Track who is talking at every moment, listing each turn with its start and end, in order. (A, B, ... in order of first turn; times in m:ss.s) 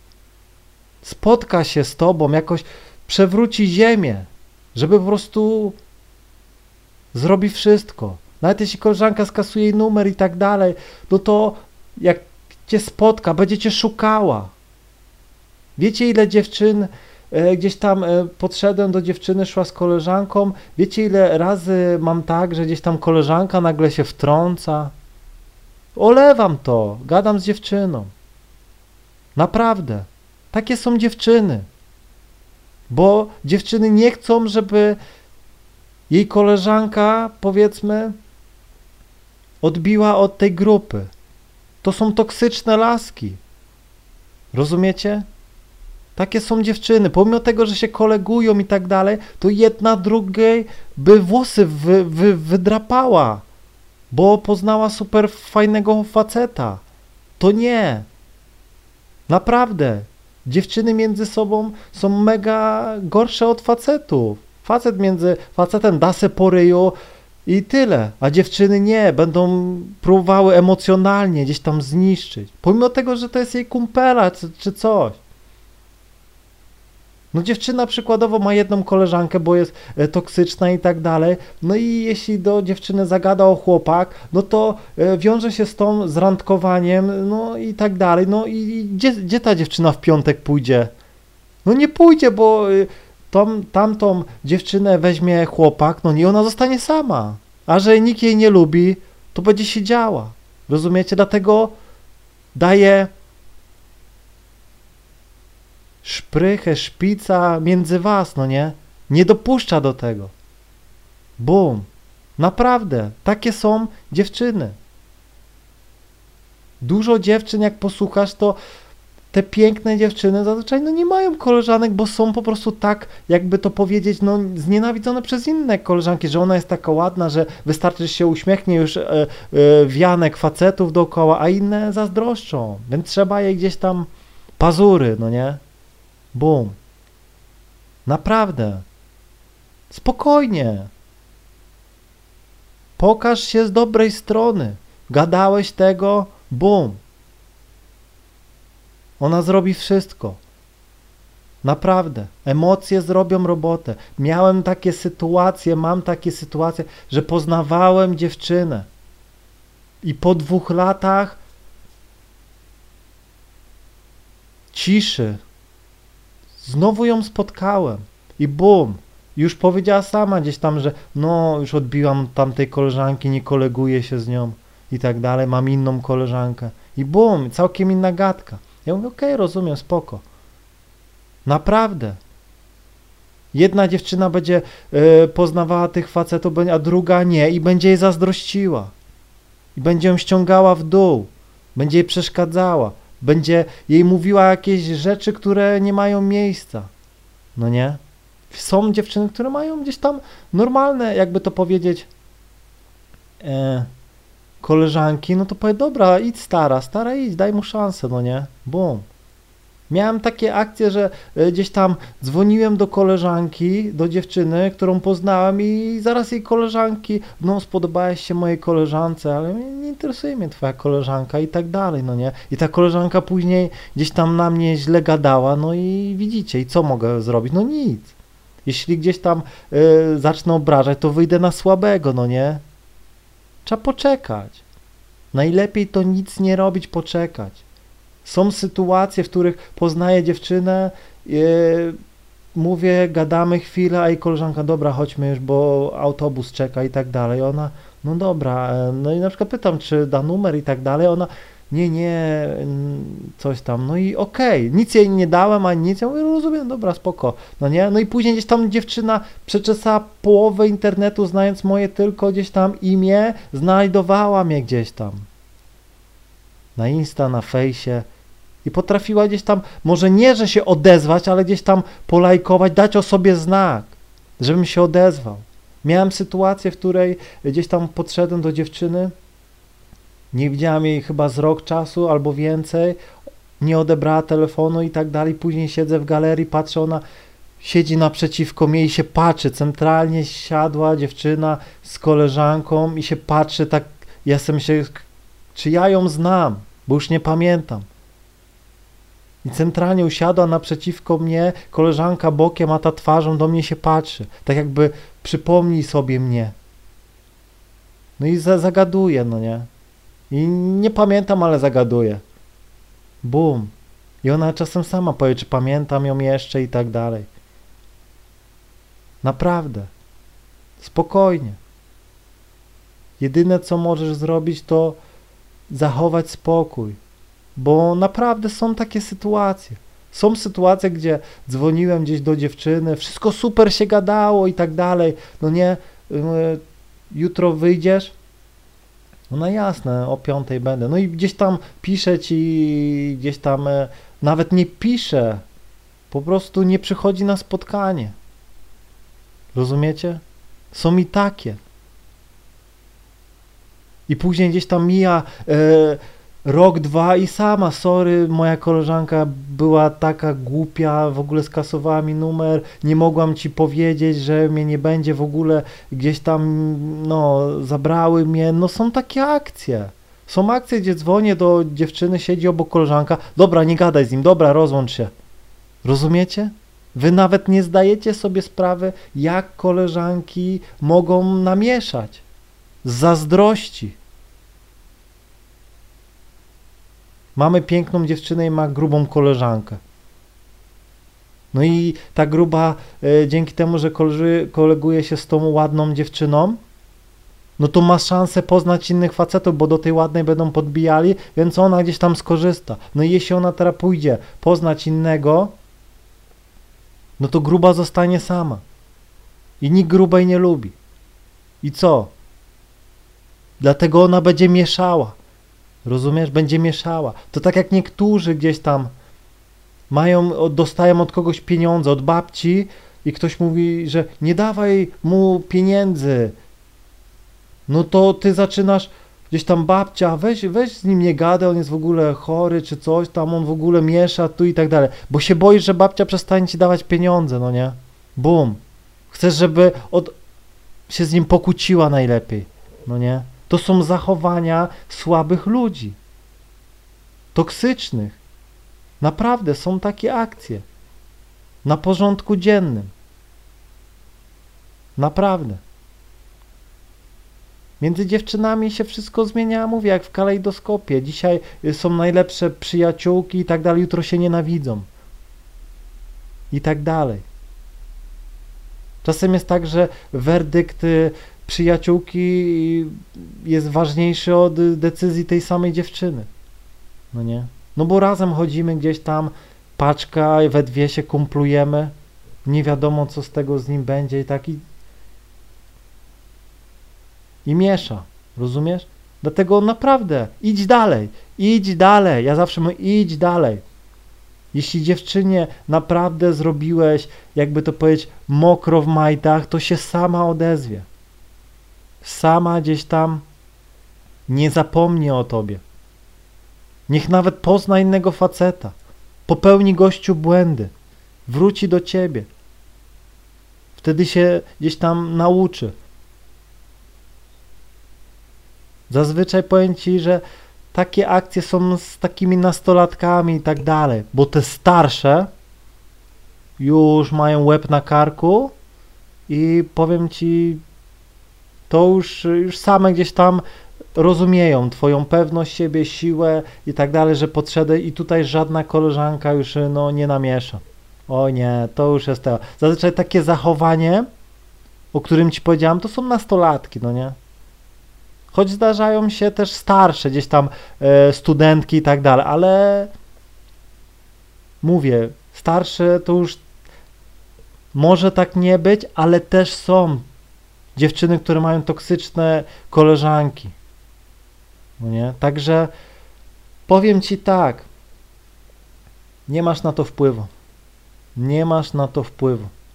0:01.0-0:05.8 A
0:07.1-0:14.5 A
0:15.8-0:24.9 A
0:25.9-0:28.1 A
0:29.4-0:31.7 A
0:32.9-0:35.0 A
0:36.1-0:38.2 A
0:39.6-0:41.1 A
0:41.8-0:43.4 A
0:44.5-0:45.3 A
0:46.2-0:53.4 A
0:54.1-0:56.8 A
0:57.4-0:58.1 A
0:59.3-1:15.2 A
1:17.3-1:30.9 A
1:31.6-1:41.7 A
1:42.5-1:43.1 A
1:46.0-1:50.3 A
1:51.4-1:51.9 A
1:52.4-1:54.8 A
1:56.8-1:58.6 A
1:59.3-2:15.6 A
2:16.3-2:16.8 A
2:18.0-2:18.8 A
2:19.9-2:20.9 A
2:23.0-2:27.0 A
2:29.2-2:30.4 A
2:31.6-2:38.9 A
2:40.0-2:41.4 A
2:44.7-2:45.4 A
2:46.6-3:00.2 A
3:01.4-3:02.2 A
3:03.5-3:08.9 A
3:09.8-3:16.9 A
3:17.6-3:22.1 A
3:23.4-3:23.9 A
3:24.6-3:29.0 A
3:29.9-3:52.6 A
3:53.6-3:54.6 A
3:55.3-3:57.6 A
3:58.2-4:02.0 A
4:02.5-4:25.3 A
4:26.8-4:28.0 A
4:28.6-4:39.1 A
4:40.3-4:43.0 A
4:43.6-4:47.0 A
4:47.6-4:57.9 A
4:59.4-5:06.5 A
5:08.2-5:09.7 A
5:10.3-5:12.2 A
5:13.2-5:17.3 A
5:19.2-5:19.9 A
5:20.8-5:21.6 A
5:23.2-5:25.0 A
5:25.7-5:27.0 A
5:27.6-5:38.1 A
5:39.3-5:45.4 A
5:46.1-5:48.2 A
5:49.5-5:51.6 A
5:54.1-6:15.1 A
6:15.8-6:22.2 A
6:22.8-6:24.0 A
6:27.4-6:29.8 A
6:31.5-6:36.6 A
6:37.6-6:45.5 A
6:47.2-6:48.6 A
6:49.6-6:50.8 A
6:51.6-6:52.1 A
6:53.6-6:55.2 A
6:55.8-6:58.9 A
6:59.9-7:06.4 A
7:07.7-7:20.1 A
7:20.9-7:26.0 A
7:27.3-7:28.2 A
7:29.0-7:30.6 A
7:31.6-7:32.9 A
7:35.0-7:35.6 A
7:37.8-7:44.9 A
7:46.5-7:47.2 A
7:49.0-7:56.3 A
7:57.1-8:04.6 A
8:07.4-8:13.6 A
8:14.5-8:20.9 A
8:22.0-8:23.2 A
8:24.3-8:25.6 A
8:26.9-8:30.7 A
8:31.3-8:32.3 A
8:33.8-8:35.7 A
8:38.9-8:40.2 A
8:40.7-8:45.3 A
8:46.6-8:48.5 A
8:49.3-8:50.6 A
8:51.7-8:53.4 A
8:53.9-9:04.1 A
9:04.9-9:07.2 A
9:08.3-9:12.9 A
9:14.6-9:16.4 A
9:17.7-9:20.1 A
9:20.8-9:23.5 A
9:24.8-9:25.7 A
9:26.7-9:27.7 A
9:29.3-9:30.3 A
9:31.2-9:32.5 A